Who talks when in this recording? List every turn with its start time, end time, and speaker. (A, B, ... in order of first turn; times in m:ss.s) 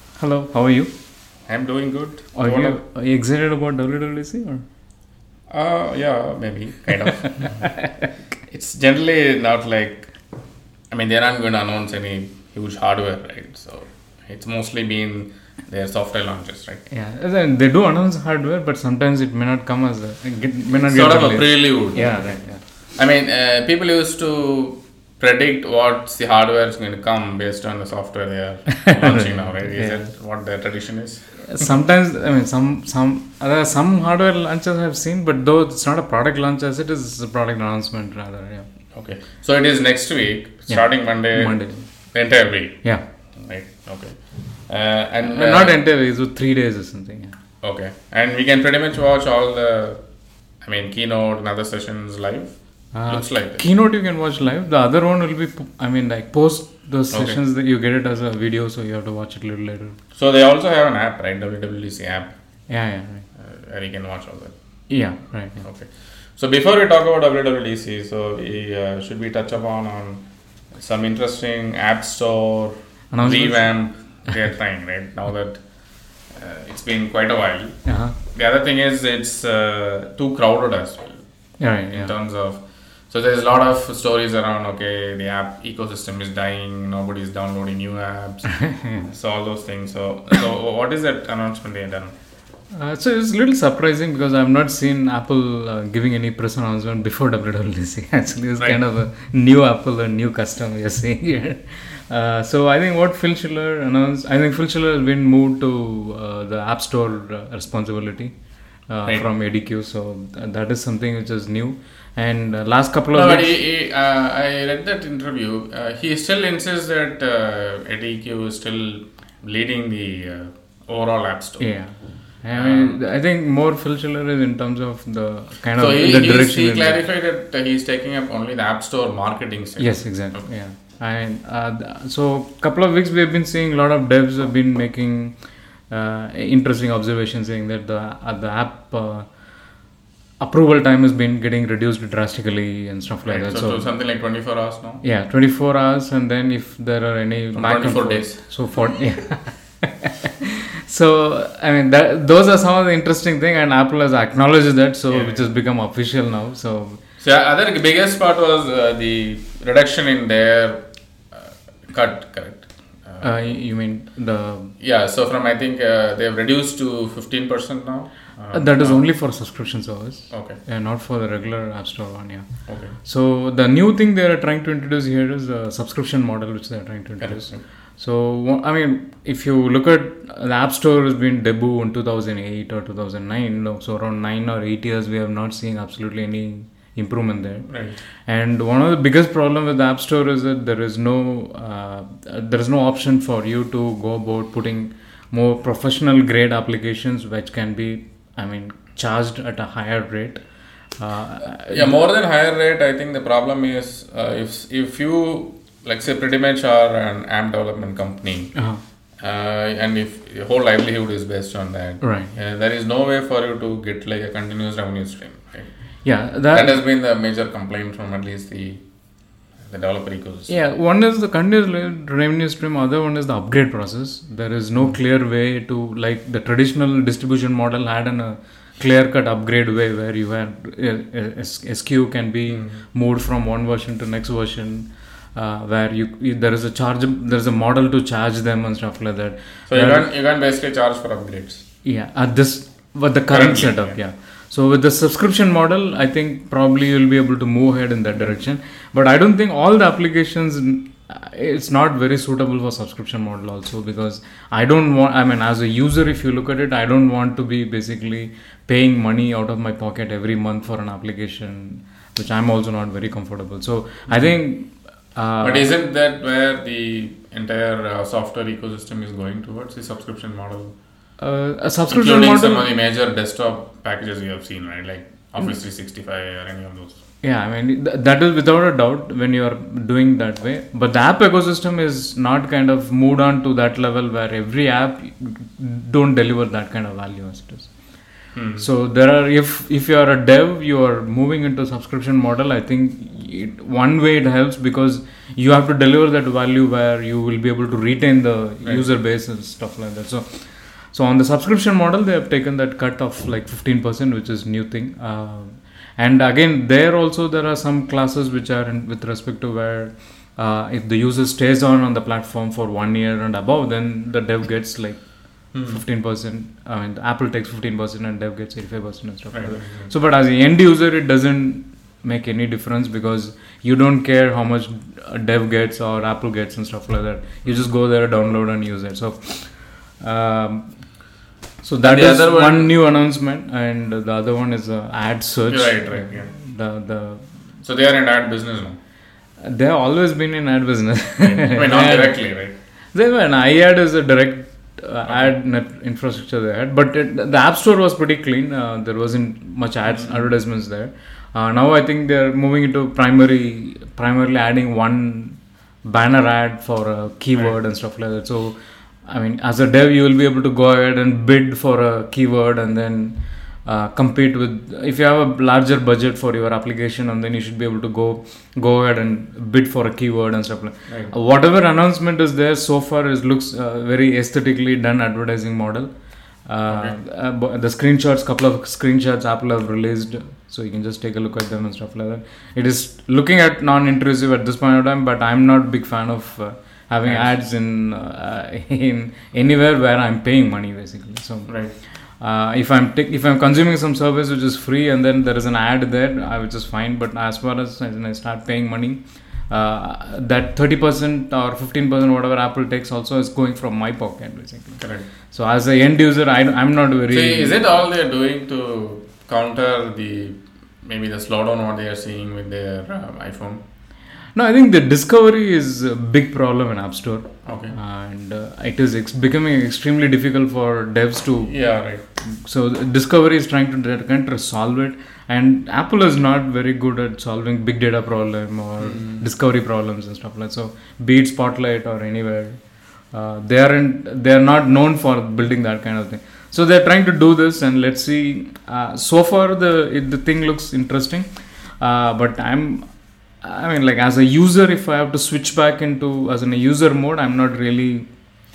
0:00.2-0:00.9 A
0:01.5-0:02.8 B
0:02.4-0:04.6 A
0:05.5-0:07.7 B
0:07.3-0:08.1 A
0:08.5-0:10.1 B
0:10.9-0:16.9 B
0:16.9-0:22.6 A
0:20.8-0:22.2 B
0:23.0-0:31.6 B
0:28.7-0:30.1 A
0:31.4-0:38.7 A
0:39.0-0:41.6 B
0:40.7-0:41.8 A
0:42.1-0:42.8 B
0:43.4-0:45.7 B
0:45.2-0:47.4 A
0:47.6-0:50.0 B
0:50.6-0:52.6 B
0:52.9-1:00.0 A
0:53.1-0:53.6 B
0:57.1-0:57.4 B
1:00.2-1:02.4 B
1:02.7-1:03.3 A
1:03.4-1:04.5 B
1:04.9-1:05.6 A
1:05.6-1:10.2 B
1:10.8-1:15.6 B
1:13.1-1:13.7 A
1:16.3-1:17.8 B
1:17.8-1:18.2 A
1:18.3-1:21.2 B
1:21.6-1:22.1 A
1:21.9-1:32.2 B
1:28.5-1:29.1 A
1:32.7-1:48.3 A
1:48.9-1:53.6 A
1:53.1-2:01.6 B
2:01.6-2:07.0 A
2:02.5-2:03.0 B
2:05.8-2:10.4 B
2:09.8-2:15.4 A
2:15.9-2:19.3 A
2:20.4-2:23.9 A
2:23.2-2:25.0 B
2:25.0-2:37.0 A
2:27.6-2:28.4 B
2:35.1-2:35.4 B
2:37.2-2:43.3 B
2:43.2-2:44.7 A
2:44.8-2:49.0 B
2:48.5-3:07.7 A
2:50.3-2:50.6 B
2:52.7-2:52.9 B
2:57.2-2:57.6 B
3:07.7-3:08.0 B
3:08.3-3:20.4 A
3:21.0-3:22.0 A
3:21.7-3:28.6 B
3:28.6-3:28.8 A
3:29.2-3:35.7 B
3:32.0-3:32.3 A
3:36.0-3:36.8 A
3:36.5-3:38.8 B
3:39.6-3:40.5 B
3:40.5-4:00.1 A
3:52.5-3:52.8 B
3:59.7-4:01.6 B
4:01.8-4:25.7 A
4:03.3-4:04.0 B
4:25.4-4:30.8 B
4:31.2-4:32.7 A
4:31.9-4:37.0 B
4:37.2-4:47.7 A
4:48.4-4:48.7 B
4:48.6-5:00.4 A
5:00.9-5:15.0 A
5:15.5-5:15.8 B
5:15.6-5:29.5 A
5:19.3-5:19.9 B
5:30.0-5:30.7 A
5:31.6-5:37.2 A
5:31.8-5:32.8 B
5:35.5-5:36.3 B
5:37.6-5:38.8 B
5:39.4-5:42.2 A
5:41.2-5:42.6 B
5:42.9-6:15.9 A
5:49.9-5:50.3 B
6:10.9-6:11.1 B
6:16.4-6:31.5 A
6:16.7-6:16.9 B
6:31.5-6:31.8 B
6:32.2-6:47.6 A
6:44.8-6:45.1 B
6:47.1-6:53.6 B
6:54.4-7:01.6 A
6:57.4-6:57.8 B
7:01.4-7:02.0 B
7:02.2-7:12.6 A
7:08.8-7:09.2 B
7:13.1-7:21.2 A
7:21.8-7:22.9 A
7:23.4-7:28.1 A